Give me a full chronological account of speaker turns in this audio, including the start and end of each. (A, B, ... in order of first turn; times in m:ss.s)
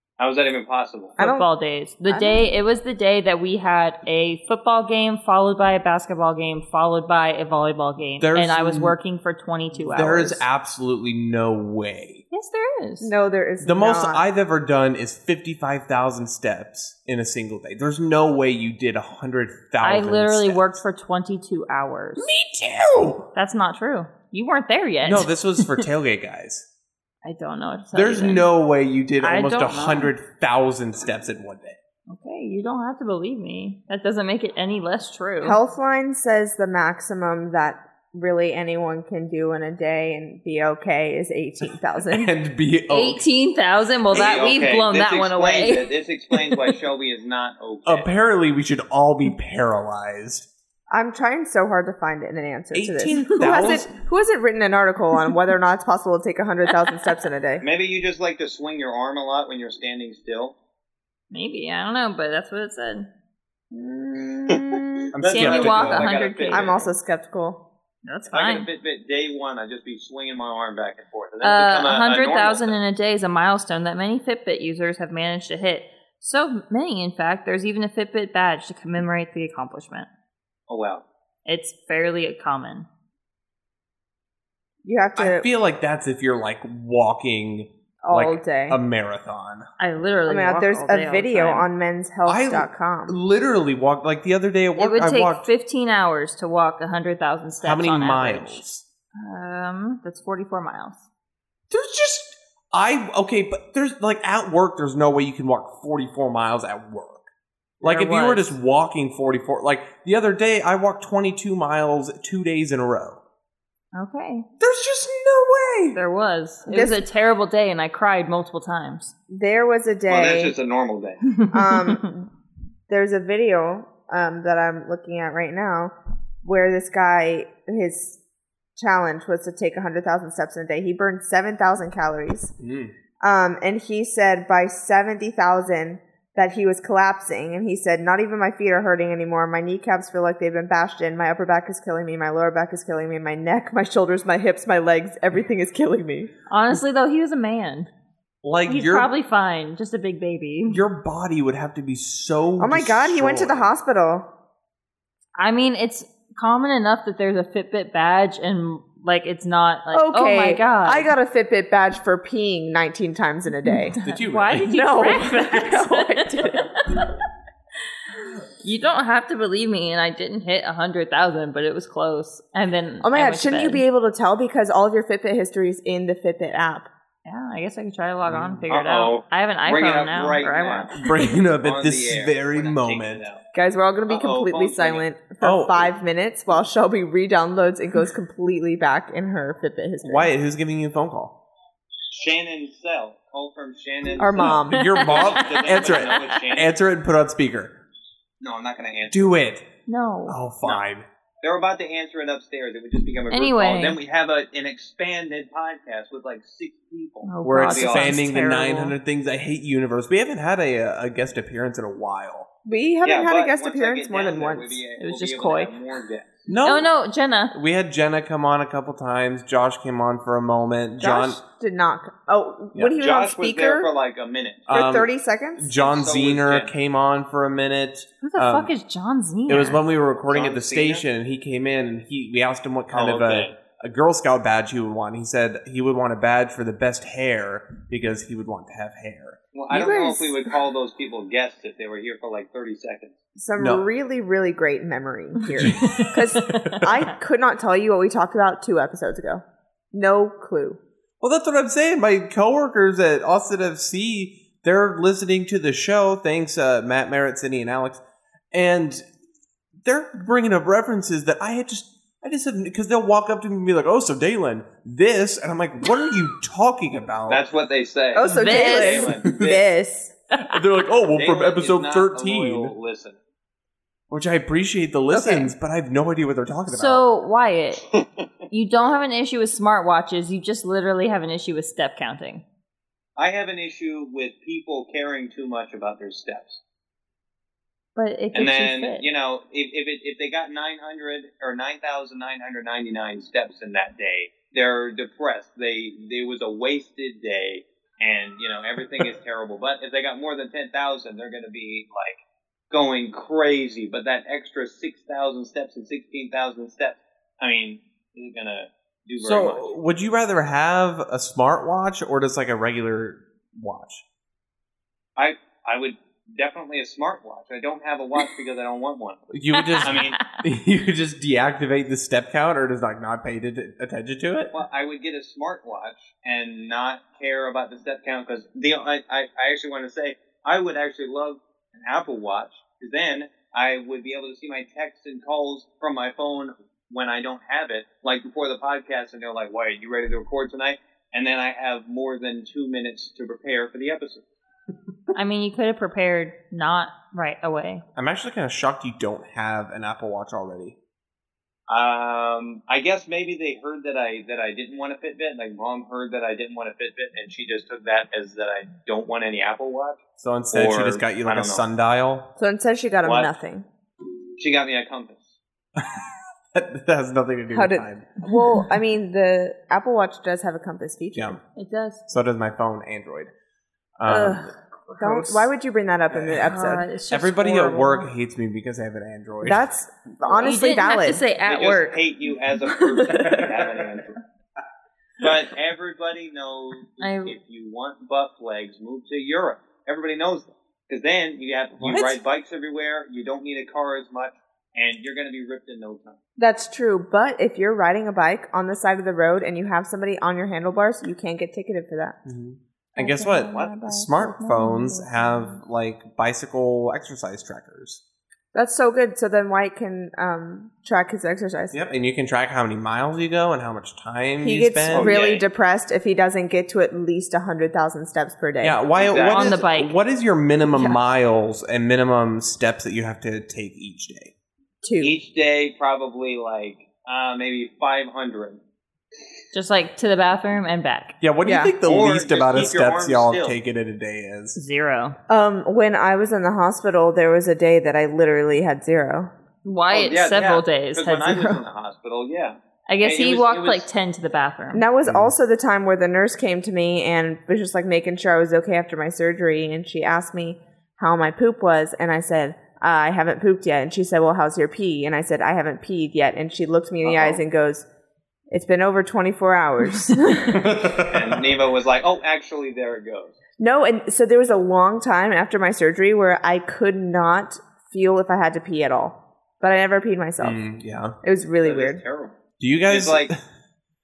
0:00.2-0:01.2 A
0:01.2-0:01.5 B
0:01.2-0:10.4 C
0:02.1-0:02.5 B
0:08.2-0:09.0 D
0:09.8-0:12.2 D
0:12.3-0:13.1 C
0:13.0-0:14.2 B
0:13.6-0:20.8 D
0:19.8-0:22.3 C
0:22.2-0:23.3 D
0:23.3-0:25.8 C
0:25.0-0:26.6 D
0:27.2-0:28.4 C
0:27.9-0:31.8 D
0:29.2-0:30.1 C
0:32.1-0:35.6 C
0:35.4-0:42.3 B
0:42.1-0:43.2 D
0:42.9-0:45.9 C
0:44.1-0:48.1 A
0:47.8-0:50.5 D
0:50.9-0:57.6 B
0:52.7-0:53.9 D
0:57.6-1:00.5 A
1:01.3-1:03.1 C
1:03.7-1:05.1 B
1:04.5-1:06.9 A
1:05.1-1:06.1 D
1:05.2-1:06.8 C
1:06.5-1:07.6 B
1:08.0-1:08.7 C
1:08.3-1:12.8 A
1:11.4-1:20.1 C
1:20.7-1:21.0 A
1:21.4-1:22.9 C
1:24.8-1:25.5 B
1:25.2-1:29.7 D
1:28.0-1:28.8 B
1:29.8-1:31.7 C
1:30.3-1:33.2 B
1:32.2-1:35.5 D
1:34.8-1:38.6 C
1:37.6-1:38.8 D
1:39.1-1:41.0 C
1:41.7-1:47.2 D
1:47.8-1:53.2 D
1:47.8-1:48.5 C
1:53.9-1:54.5 C
1:54.6-1:56.0 D
1:55.9-1:59.1 C
1:56.7-1:57.0 B
1:59.3-2:00.5 B
2:00.1-2:01.2 A
2:01.3-2:02.0 C
2:01.5-2:02.3 B
2:02.9-2:08.2 B
2:08.8-2:12.5 B
2:12.6-2:12.9 D
2:13.2-2:26.3 B
2:26.5-2:27.9 C
2:28.4-2:29.1 D
2:28.6-2:30.8 C
2:30.7-2:33.7 D
2:32.6-2:34.3 B
2:35.4-2:41.1 C
2:39.9-2:44.0 B
2:43.7-2:47.1 C
2:44.0-2:44.7 D
2:44.6-2:46.9 B
2:48.6-2:53.8 C
2:53.0-2:56.9 B
2:57.2-3:01.0 C
2:58.2-2:58.6 D
2:58.7-3:03.4 A
3:01.0-3:03.2 D
3:03.5-3:10.3 B
3:04.1-3:05.0 A
3:05.4-3:05.9 D
3:10.0-3:11.4 D
3:12.1-3:16.7 A
3:14.2-3:14.9 B
3:14.4-3:17.8 D
3:14.7-3:16.4 C
3:18.4-3:19.4 A
3:19.1-3:19.6 D
3:19.9-3:20.4 C
3:20.3-3:21.0 D
3:21.4-3:28.2 A
3:23.3-3:24.0 C
3:27.2-3:29.0 C
3:27.4-3:32.5 D
3:32.6-3:34.8 B
3:33.0-3:36.4 A
3:35.0-3:35.7 C
3:36.5-3:36.9 D
3:36.6-3:37.5 C
3:37.5-3:41.4 D
3:41.0-3:43.9 B
3:42.8-3:44.7 A
3:44.7-3:48.7 D
3:44.7-3:45.7 B
3:45.8-3:46.7 A
3:48.2-3:49.8 C
3:49.5-3:59.4 D
3:50.3-3:51.0 A
3:52.9-3:53.6 A
3:59.5-4:03.1 A
3:59.7-4:00.3 B
4:03.4-4:10.8 B
4:03.6-4:03.8 D
4:05.5-4:07.0 D
4:05.8-4:06.8 C
4:11.2-4:18.0 D
4:18.5-4:19.0 D
4:19.8-4:27.4 D
4:27.3-4:29.7 A
4:28.1-4:30.1 B
4:28.3-4:29.1 C
4:30.4-4:32.7 D
4:31.1-4:33.2 A
4:34.1-4:37.0 D
4:36.7-4:37.8 C
4:37.9-4:38.3 A
4:38.5-4:42.4 C
4:43.2-4:46.6 A
4:48.0-4:49.0 C
4:48.3-5:02.2 A
5:02.7-5:09.7 A
5:09.2-5:14.0 D
5:15.2-5:19.2 A
5:19.3-5:24.5 D
5:19.5-5:20.2 C
5:19.8-5:20.2 A
5:24.5-5:44.2 A
5:45.1-5:47.8 C
5:48.0-5:50.8 D
5:51.7-6:00.0 A
6:00.2-6:02.3 D
6:00.5-6:01.6 A
6:02.4-6:03.6 B
6:03.0-6:03.3 A
6:04.4-6:05.3 A
6:05.8-6:08.1 D
6:07.5-6:11.4 B
6:11.6-6:12.0 C
6:12.1-6:13.3 D
6:14.0-6:15.5 D
6:14.1-6:16.8 B
6:16.1-6:16.4 D
6:16.4-6:18.1 C
6:17.1-6:19.7 D
6:19.4-6:21.2 B
6:20.2-6:20.5 A
6:20.4-6:22.0 C
6:21.4-6:24.2 A
6:23.0-6:23.4 B
6:25.2-6:36.2 A
6:27.0-6:27.3 C
6:31.8-6:32.2 D
6:36.4-6:42.2 B
6:42.2-6:48.0 D
6:43.0-6:45.6 C
6:48.5-6:51.8 B
6:51.7-6:55.1 D
6:54.4-6:58.8 B
6:54.9-6:55.4 A
6:58.6-7:04.3 D
6:59.0-6:59.6 A
6:59.3-6:59.9 C
7:04.8-7:05.1 B
7:05.0-7:08.6 A
7:09.5-7:11.1 C
7:11.2-7:14.6 D
7:11.4-7:11.7 B
7:11.8-7:13.6 A
7:14.5-7:15.2 C
7:15.3-7:19.3 B
7:19.6-7:21.6 C
7:19.9-7:23.9 A
7:22.9-7:24.8 C
7:24.7-7:37.8 B
7:25.0-7:25.3 D
7:37.0-7:37.4 A
7:38.5-7:40.7 B
7:40.5-7:41.5 D
7:40.9-7:43.3 A
7:43.6-7:50.6 B
7:50.4-7:51.2 D
7:51.2-7:52.0 B
7:51.6-7:53.3 A
7:52.6-7:53.4 D